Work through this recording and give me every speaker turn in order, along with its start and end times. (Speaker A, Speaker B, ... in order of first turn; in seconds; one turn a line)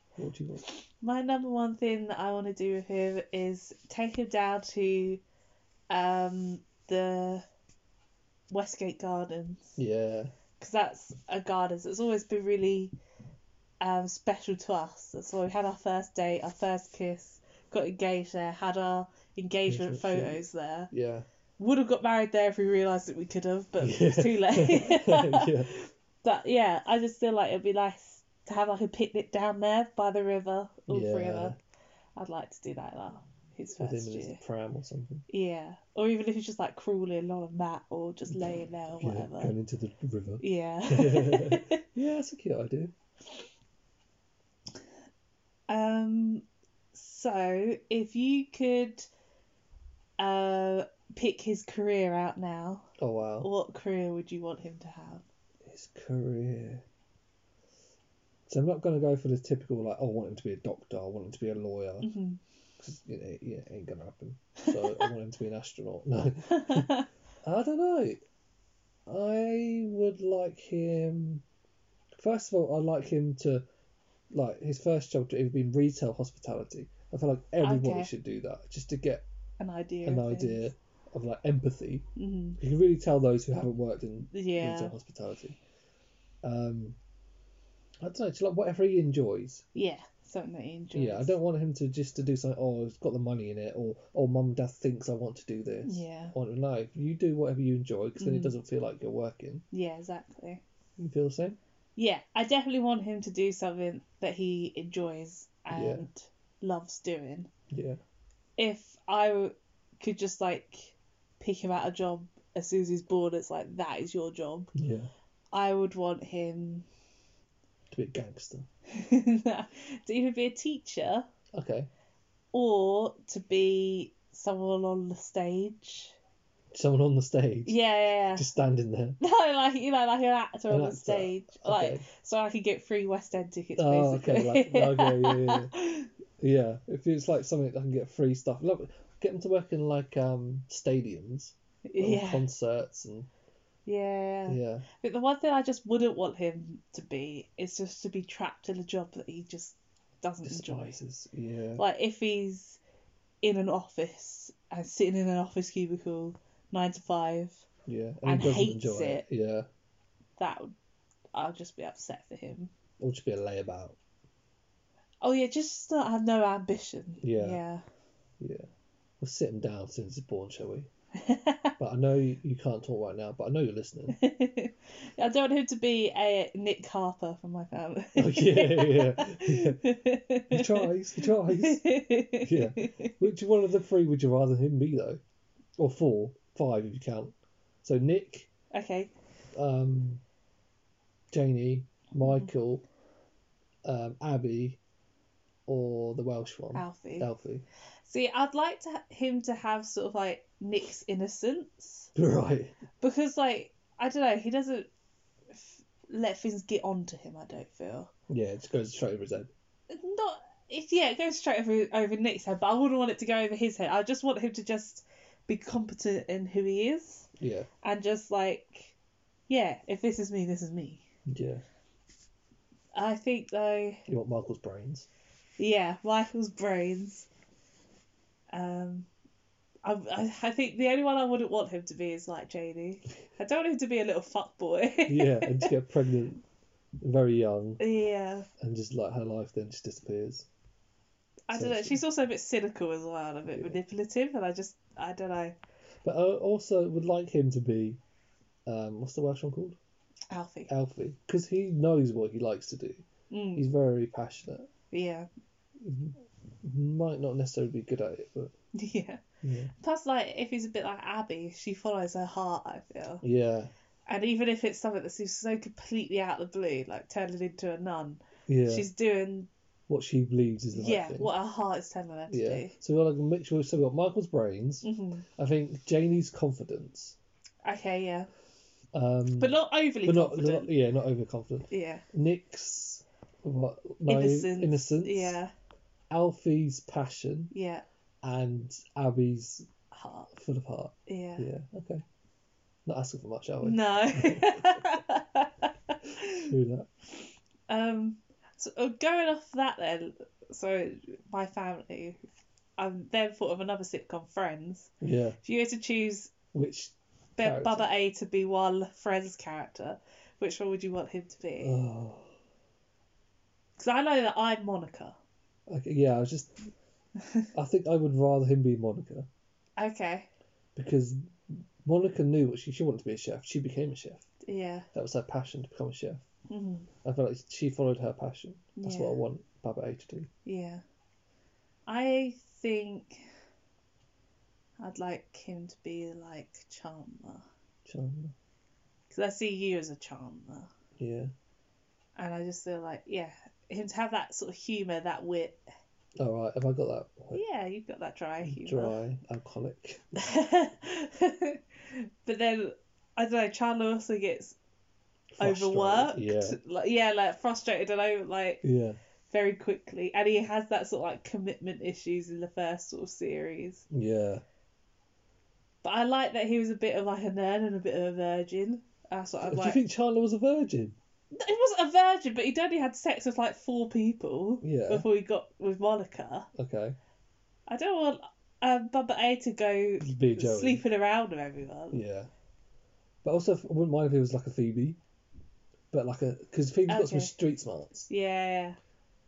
Speaker A: 0.2-0.6
Speaker B: 0.7-5.2
Speaker B: 5.9-7.4
Speaker B: 8.5-9.8
Speaker A: 9.8-10.3
Speaker B: 10.6-12.9
Speaker B: 13.8-20.9
Speaker A: 19.7-21.2
Speaker B: 21.6-31.6
Speaker A: 23.8-25.7
Speaker A: 30.9-31.6
Speaker B: 32.1-34.4
Speaker A: 33.7-35.3
Speaker B: 35.3-39.5
Speaker A: 38.3-42.9
Speaker B: 40.4-41.8
Speaker B: 45.7-49.1
Speaker B: 50.2-52.9
Speaker A: 53.0-53.5
Speaker B: 53.4-55.2
Speaker A: 55.6-56.8
Speaker A: 58.5-62.1
Speaker B: 62.0-62.4
Speaker A: 62.8-68.2
Speaker B: 66.5-67.0
Speaker A: 69.0-71.4
Speaker A: 72.1-73.7
Speaker A: 74.3-79.2
Speaker B: 77.6-78.1
Speaker B: 79.6-80.7
Speaker A: 80.0-85.6
Speaker B: 82.2-82.6
Speaker B: 84.3-84.9
Speaker A: 86.4-87.0
Speaker A: 88.0-89.6
Speaker B: 89.7-91.4
Speaker A: 90.9-99.6
Speaker B: 95.8-96.3
Speaker B: 98.2-98.6
Speaker B: 99.7-100.6
Speaker A: 101.0-101.6
Speaker B: 102.0-107.5
Speaker A: 105.7-106.1
Speaker A: 107.7-108.0
Speaker B: 108.6-114.7
Speaker A: 114.7-115.1
Speaker B: 115.5-116.8
Speaker A: 117.9-118.7
Speaker B: 118.9-121.3
Speaker A: 121.5-121.9
Speaker B: 122.5-126.1
Speaker A: 126.7-127.8
Speaker B: 127.7-128.5
Speaker A: 128.3-129.2
Speaker B: 129.2-136.1
Speaker A: 130.7-132.0
Speaker A: 133.8-135.7
Speaker A: 136.4-143.3
Speaker B: 141.9-142.4
Speaker B: 143.8-151.0
Speaker A: 144.5-144.8
Speaker A: 150.4-151.8
Speaker B: 151.8-152.8
Speaker B: 153.4-157.6
Speaker A: 157.8-159.7
Speaker B: 158.2-159.2
Speaker B: 160.4-160.7
Speaker B: 161.3-162.7
Speaker A: 163.0-164.0
Speaker B: 165.2-167.8
Speaker A: 167.2-167.6
Speaker A: 168.4-168.7
Speaker A: 169.2-170.9
Speaker B: 171.2-171.7
Speaker A: 171.8-174.2
Speaker B: 174.1-183.1
Speaker A: 178.2-179.8
Speaker A: 180.5-185.2
Speaker A: 185.8-188.5
Speaker B: 188.7-189.1
Speaker A: 189.5-190.2
Speaker A: 191.3-192.8
Speaker B: 192.2-192.5
Speaker A: 193.8-194.8
Speaker A: 195.7-197.6
Speaker B: 196.7-197.3
Speaker B: 198.1-202.1
Speaker A: 202.1-202.8
Speaker B: 203.0-204.9
Speaker B: 205.5-208.1
Speaker A: 208.3-209.5
Speaker B: 209.9-217.3
Speaker A: 217.4-217.7
Speaker B: 217.8-218.9
Speaker B: 219.5-221.1
Speaker A: 221.3-221.6
Speaker B: 222.9-224.0
Speaker A: 224.1-225.1
Speaker B: 225.6-227.3
Speaker B: 228.5-229.1
Speaker B: 229.8-235.7
Speaker A: 235.1-236.4
Speaker A: 237.0-237.8
Speaker B: 237.8-238.5
Speaker A: 238.6-240.5
Speaker B: 241.5-245.6
Speaker A: 241.5-242.0
Speaker A: 243.5-243.8
Speaker A: 246.0-248.0
Speaker A: 248.7-249.8
Speaker B: 250.3-250.7
Speaker A: 250.7-253.0
Speaker B: 253.3-253.6
Speaker A: 253.6-254.7
Speaker B: 254.9-255.3
Speaker A: 255.8-258.5
Speaker B: 258.7-259.2
Speaker A: 259.4-259.7
Speaker B: 259.8-263.2
Speaker A: 263.2-263.7
Speaker B: 264.1-269.5
Speaker A: 268.5-268.9
Speaker A: 269.9-271.3
Speaker B: 270.7-272.7
Speaker A: 272.3-277.1
Speaker B: 274.8-275.3
Speaker B: 277.6-278.3
Speaker A: 278.9-285.4
Speaker B: 279.4-280.7
Speaker B: 281.7-282.0
Speaker B: 284.1-285.5
Speaker A: 286.1-287.5
Speaker B: 287.5-287.8
Speaker A: 288.2-289.7
Speaker B: 289.9-290.3
Speaker A: 290.3-292.0
Speaker B: 291.1-291.5
Speaker A: 292.9-294.8
Speaker B: 293.6-296.5
Speaker A: 296.4-296.9
Speaker B: 297.7-302.2
Speaker B: 302.8-304.9
Speaker A: 305.0-305.4
Speaker B: 305.4-306.3
Speaker A: 306.5-307.8
Speaker B: 307.4-311.8
Speaker A: 311.6-312.3
Speaker B: 313.8-315.1
Speaker A: 315.7-316.7
Speaker A: 317.5-319.3
Speaker B: 319.8-320.3
Speaker A: 320.7-324.3
Speaker B: 324.4-324.9
Speaker A: 324.9-326.2
Speaker B: 326.5-326.9
Speaker A: 327.0-330.3
Speaker B: 328.8-329.2
Speaker B: 330.4-330.8
Speaker B: 331.9-333.2
Speaker B: 334.8-337.4
Speaker A: 337.9-338.3
Speaker B: 339.1-340.7
Speaker A: 341.0-341.3
Speaker B: 342.1-345.6
Speaker A: 346.2-347.4
Speaker B: 347.3-348.9
Speaker A: 348.4-350.1
Speaker B: 350.1-354.6
Speaker A: 355.3-356.6
Speaker B: 355.4-358.6
Speaker A: 358.6-359.0
Speaker B: 359.3-363.8
Speaker A: 363.9-364.4
Speaker B: 365.8-369.8
Speaker A: 369.4-371.0
Speaker B: 371.3-376.5
Speaker A: 374.6-375.1
Speaker A: 376.5-377.0
Speaker B: 377.7-382.0
Speaker A: 380.0-380.8
Speaker A: 381.9-382.3
Speaker A: 383.2-385.0
Speaker A: 385.9-388.1
Speaker B: 386.9-387.3
Speaker B: 388.1-388.8